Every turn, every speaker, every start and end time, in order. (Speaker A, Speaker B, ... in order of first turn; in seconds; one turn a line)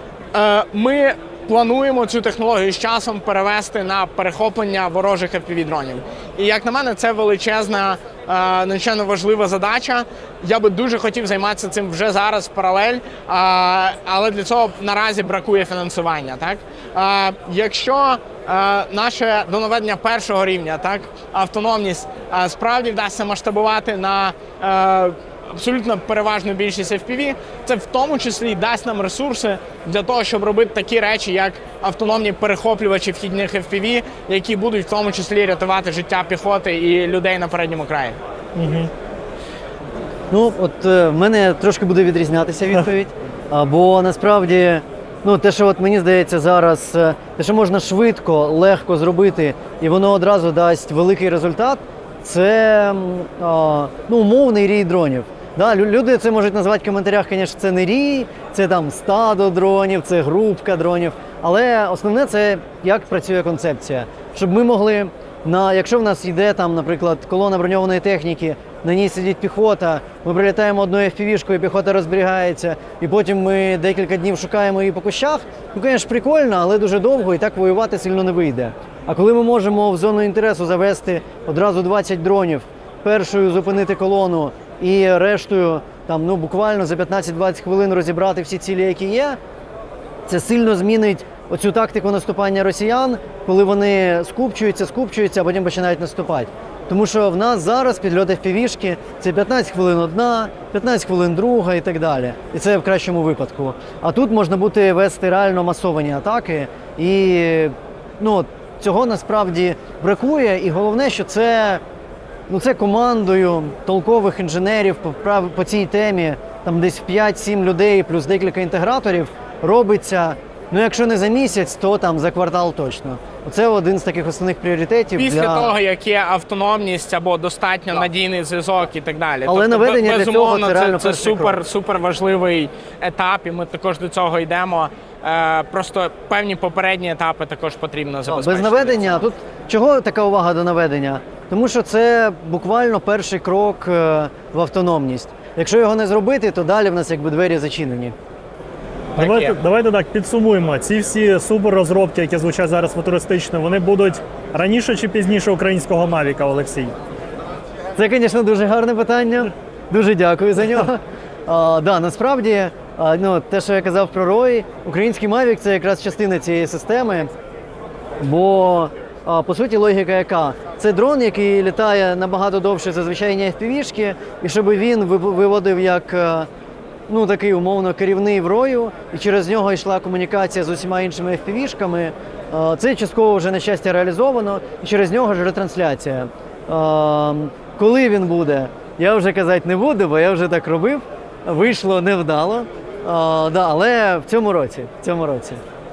Speaker A: 0.3-38.2
Speaker B: 38.6-38.9
Speaker C: 40.3-89.4
Speaker C: 90.3-111.8
Speaker C: 112.5-125.8
Speaker A: 125.2-139.2
Speaker C: 129.4-131.6
Speaker C: 138.3-148.1
Speaker A: 149.2-149.6
Speaker B: 149.2-156.9
Speaker C: 158.0-167.3
Speaker C: 168.2-176.5
Speaker C: 177.1-195.6